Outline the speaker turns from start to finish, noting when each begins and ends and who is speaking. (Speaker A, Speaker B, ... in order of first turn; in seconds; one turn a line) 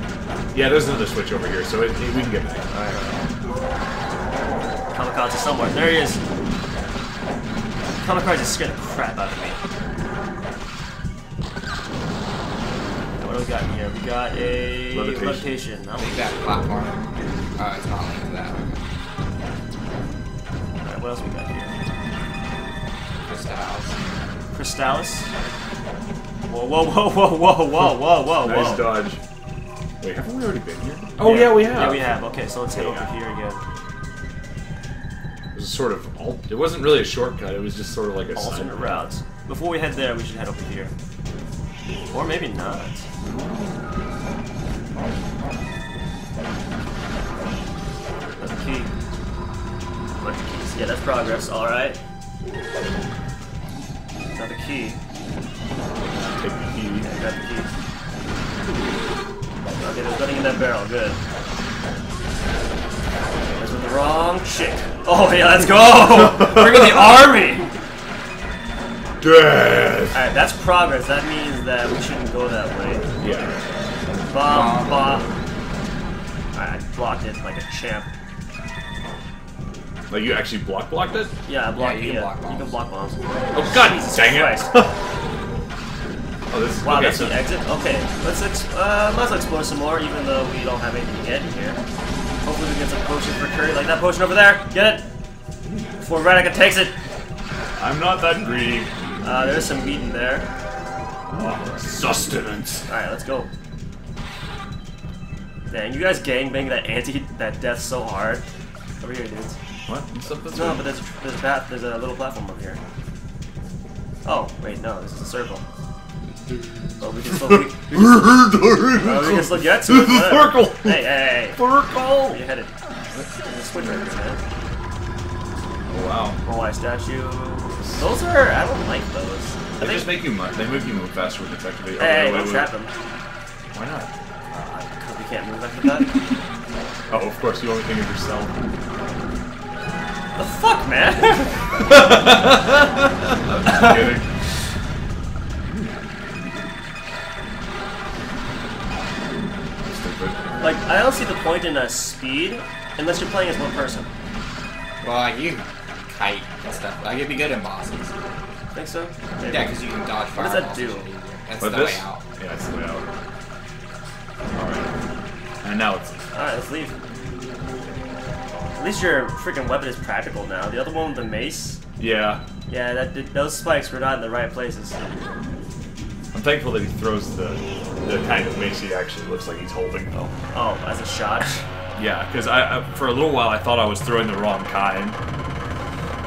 Speaker A: 0.5-2.6
Speaker B: 2.7-3.3
Speaker B: 4.9-6.2
Speaker B: 8.0-9.6
Speaker B: 13.2-16.3
Speaker A: 14.9-15.5
Speaker C: 16.0-18.8
Speaker B: 20.8-21.7
Speaker C: 23.2-24.2
Speaker B: 24.5-25.3
Speaker B: 26.5-29.0
Speaker A: 28.4-29.2
Speaker A: 30.0-32.1
Speaker B: 31.2-33.6
Speaker A: 32.7-33.1
Speaker A: 35.5-39.1
Speaker B: 38.3-40.9
Speaker B: 42.1-43.0
Speaker A: 43.2-43.7
Speaker B: 48.4-48.9
Speaker B: 50.2-52.0
Speaker B: 54.3-55.0
Speaker A: 56.0-57.1
Speaker B: 57.0-57.7
Speaker B: 59.8-61.2
Speaker B: 63.5-67.7
Speaker A: 66.2-66.9
Speaker A: 69.2-70.2
Speaker B: 70.1-73.1
Speaker A: 73.2-73.6
Speaker B: 74.3-75.3
Speaker C: 74.3-75.2
Speaker B: 76.5-78.1
Speaker A: 80.1-81.3
Speaker B: 81.5-84.7
Speaker C: 81.8-82.7
Speaker A: 83.5-85.0
Speaker A: 86.5-87.4
Speaker B: 86.8-91.8
Speaker B: 92.4-95.1
Speaker B: 96.0-96.9
Speaker A: 97.8-98.9
Speaker B: 99.2-100.5
Speaker A: 101.3-102.9
Speaker B: 102.9-103.5
Speaker B: 105.7-108.5
Speaker B: 109.0-109.5
Speaker A: 109.9-110.9
Speaker B: 110.5-112.8
Speaker B: 114.2-115.6
Speaker A: 116.4-122.4
Speaker B: 117.0-118.4
Speaker B: 118.9-121.6
Speaker B: 122.2-122.8
Speaker B: 123.4-124.4
Speaker A: 125.9-126.4
Speaker B: 126.4-130.2
Speaker A: 127.8-128.0
Speaker A: 129.8-132.7
Speaker B: 132.0-132.9
Speaker A: 133.7-134.1
Speaker B: 134.5-136.2
Speaker A: 137.1-138.5
Speaker B: 140.3-141.9
Speaker A: 141.9-144.3
Speaker B: 143.7-144.1
Speaker A: 149.8-150.6
Speaker B: 150.6-154.1
Speaker C: 155.0-158.1
Speaker B: 158.7-159.8
Speaker C: 159.4-162.2
Speaker B: 160.3-161.1
Speaker A: 161.6-163.1
Speaker A: 164.5-164.9
Speaker A: 165.6-166.2
Speaker B: 166.3-166.9
Speaker B: 168.8-171.8
Speaker A: 172.0-172.4
Speaker B: 172.7-175.0
Speaker A: 176.3-180.1
Speaker B: 180.1-181.6
Speaker A: 181.9-185.2